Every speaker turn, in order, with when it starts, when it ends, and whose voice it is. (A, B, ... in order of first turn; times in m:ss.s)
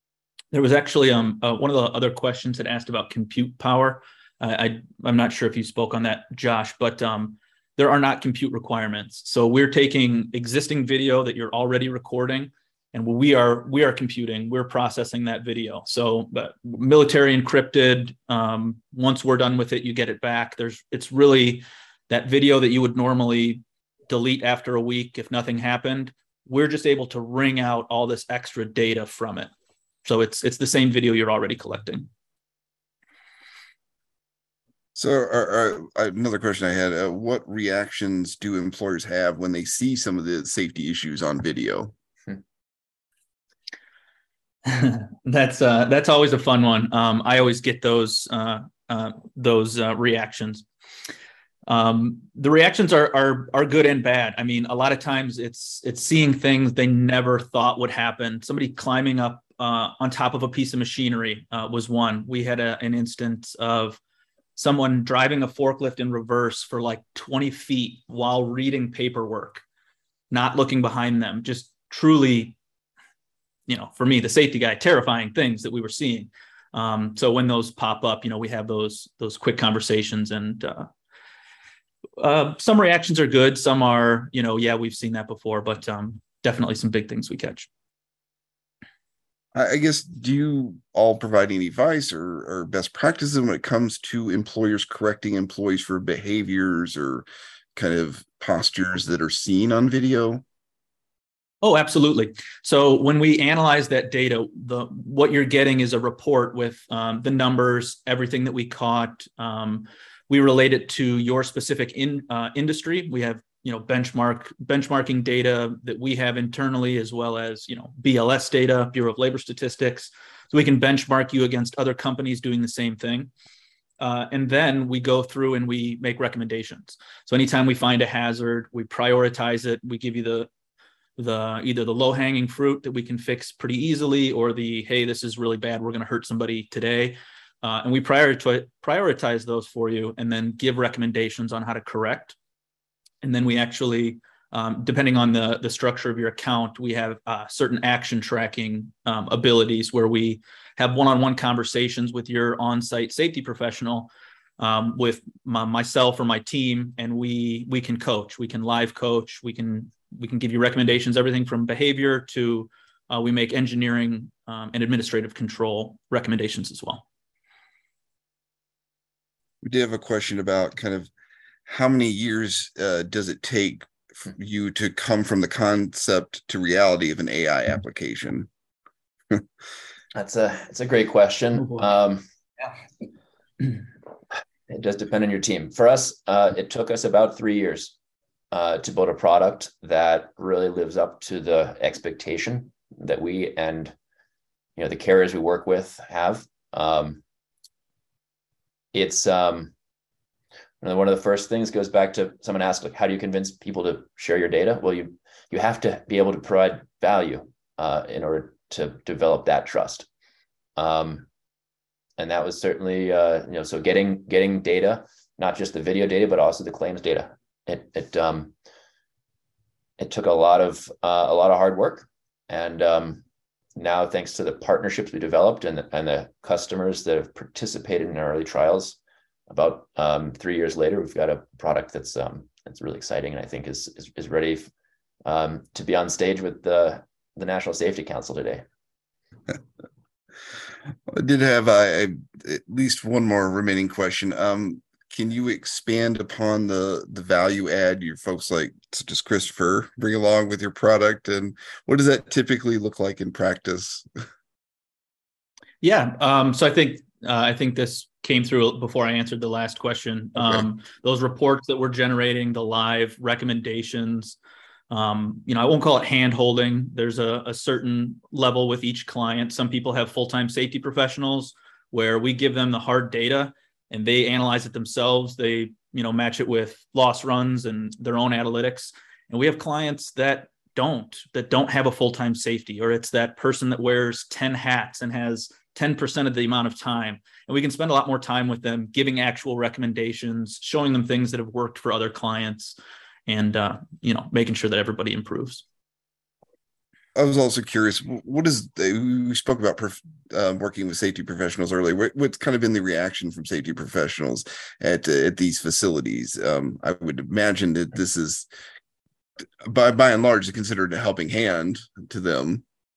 0:00.5-0:29.5 A
0:30.0-0:32.1 A
0:35.0-0:41.9 B
0:44.6-0:50.6 A
0:51.7-1:04.0 A
1:04.6-1:09.6 A
1:10.3-1:12.6 A
1:13.7-1:20.9 A
1:22.2-1:27.7 A
1:29.5-1:40.4 B
1:41.6-2:03.3 A
2:04.0-2:10.5 A
2:11.2-2:22.3 A
2:23.2-2:47.0 A
2:49.6-2:51.1 B
2:51.6-2:58.5 B
3:00.1-3:02.2 C
3:04.7-3:07.9 C
3:08.5-3:13.9 C
3:14.8-3:17.2 C
3:18.9-3:19.7 C
3:20.8-3:30.1 C
3:30.8-3:31.2 C
3:32.2-3:38.5 C
3:40.0-3:43.2 C
3:43.8-3:49.0 C
3:49.5-3:54.7 C
3:55.2-3:58.6 C
4:01.1-4:14.1 B
4:15.8-4:24.4 A
4:20.4-4:20.6 B
4:24.9-4:52.8 A
4:53.3-4:55.6 A
4:57.1-5:08.5 B
5:09.6-5:12.6 B